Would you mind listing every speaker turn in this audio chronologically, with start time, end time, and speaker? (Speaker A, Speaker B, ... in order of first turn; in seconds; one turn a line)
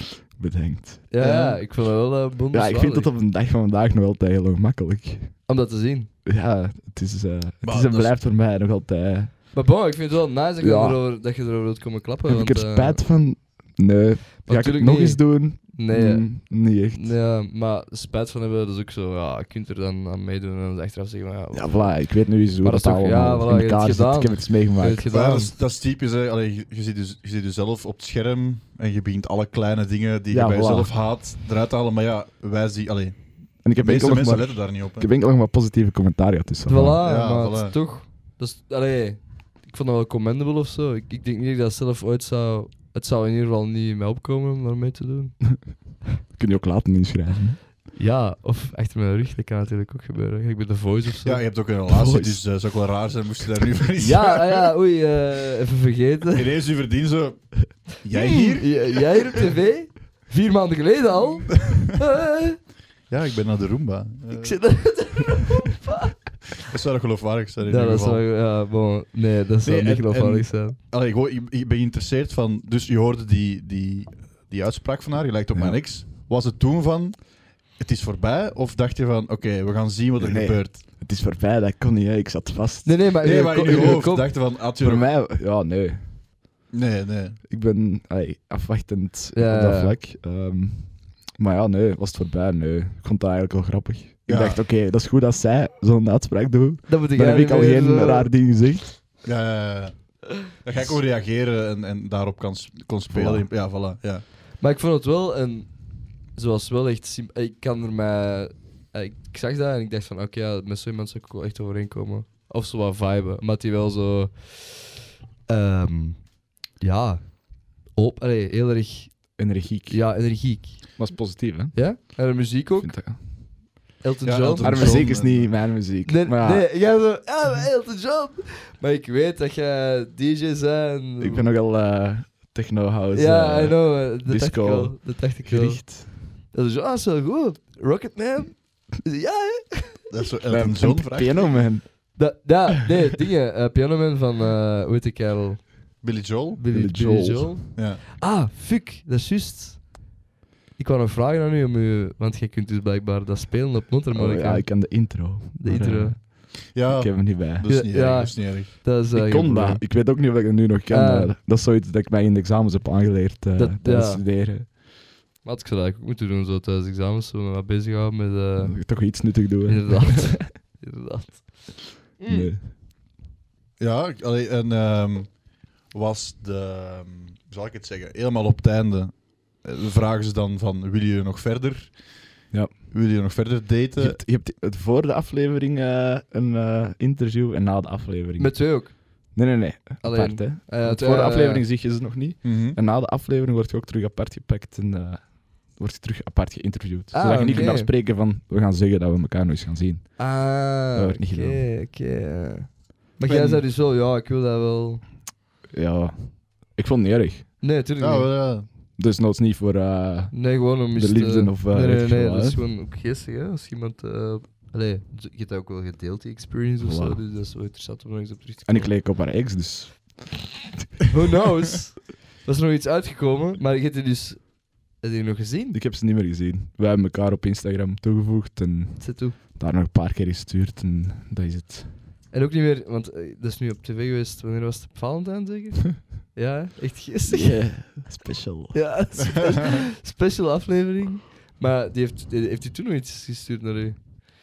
Speaker A: 0.2-1.1
Speaker B: 1.1-3.1
Speaker C: 1.2-1.6
Speaker A: 2.5-5.5
Speaker B: 5.5-6.1
Speaker A: 6.2-9.5
Speaker C: 7.6-8.1
Speaker B: 9.5-13.0
Speaker A: 10.6-11.0
Speaker A: 12.2-17.1
Speaker B: 14.4-25.5
Speaker A: 21.5-25.0
Speaker C: 25.1-35.1
Speaker A: 30.3-30.9
Speaker A: 33.6-37.0
Speaker B: 36.7-45.9
Speaker C: 37.0-37.8
Speaker A: 46.3-47.6
Speaker B: 47.9-51.4
Speaker C: 51.2-54.7
Speaker A: 51.9-52.4
Speaker B: 54.0-56.5
Speaker C: 56.3-59.4
Speaker B: 58.1-62.6
Speaker C: 63.1-64.8
Speaker B: 64.3-66.6
Speaker C: 66.6-68.2
Speaker B: 67.7-70.8
Speaker C: 69.6-80.8
Speaker A: 75.5-75.8
Speaker A: 80.2-83.0
Speaker B: 82.8-84.3
Speaker C: 83.2-85.1
Speaker A: 83.7-84.0
Speaker A: 84.8-86.2
Speaker C: 86.7-87.4
Speaker A: 87.5-99.0
Speaker B: 89.3-90.0
Speaker C: 94.3-94.6
Speaker B: 96.9-98.3
Speaker C: 99.2-104.2
Speaker A: 103.1-103.5
Speaker B: 104.6-114.9
Speaker B: 115.5-121.1
Speaker A: 119.3-123.6
Speaker B: 121.7-125.2
Speaker C: 124.2-125.5
Speaker A: 124.6-126.7
Speaker B: 126.0-131.5
Speaker A: 131.2-136.1
Speaker B: 133.1-140.1
Speaker C: 140.1-141.8
Speaker A: 140.5-142.5
Speaker B: 142.1-146.0
Speaker C: 146.0-146.6
Speaker B: 146.5-150.1
Speaker A: 146.7-147.6
Speaker C: 147.7-148.0
Speaker B: 150.8-156.2
Speaker A: 154.1-157.7
Speaker C: 156.7-158.7
Speaker B: 157.6-159.9
Speaker A: 159.1-164.7
Speaker B: 160.9-161.3
Speaker B: 163.6-164.2
Speaker B: 165.4-172.5
Speaker A: 168.6-170.4
Speaker A: 172.3-172.7
Speaker C: 173.8-182.0
Speaker A: 182.5-182.9
Speaker C: 182.9-184.2
Speaker A: 184.0-201.7
Speaker B: 188.4-189.3
Speaker B: 190.0-191.6
Speaker C: 192.4-192.8
Speaker B: 197.1-197.9
Speaker B: 200.2-205.0
Speaker C: 203.2-203.6
Speaker A: 205.7-207.5
Speaker B: 207.6-208.3
Speaker C: 208.0-208.7
Speaker A: 209.0-212.6
Speaker B: 210.3-218.9
Speaker A: 216.8-217.2
Speaker A: 218.6-220.3
Speaker B: 221.1-225.8
Speaker A: 225.7-231.9
Speaker B: 229.0-229.4
Speaker B: 232.3-238.1
Speaker A: 237.3-238.8
Speaker B: 238.7-244.0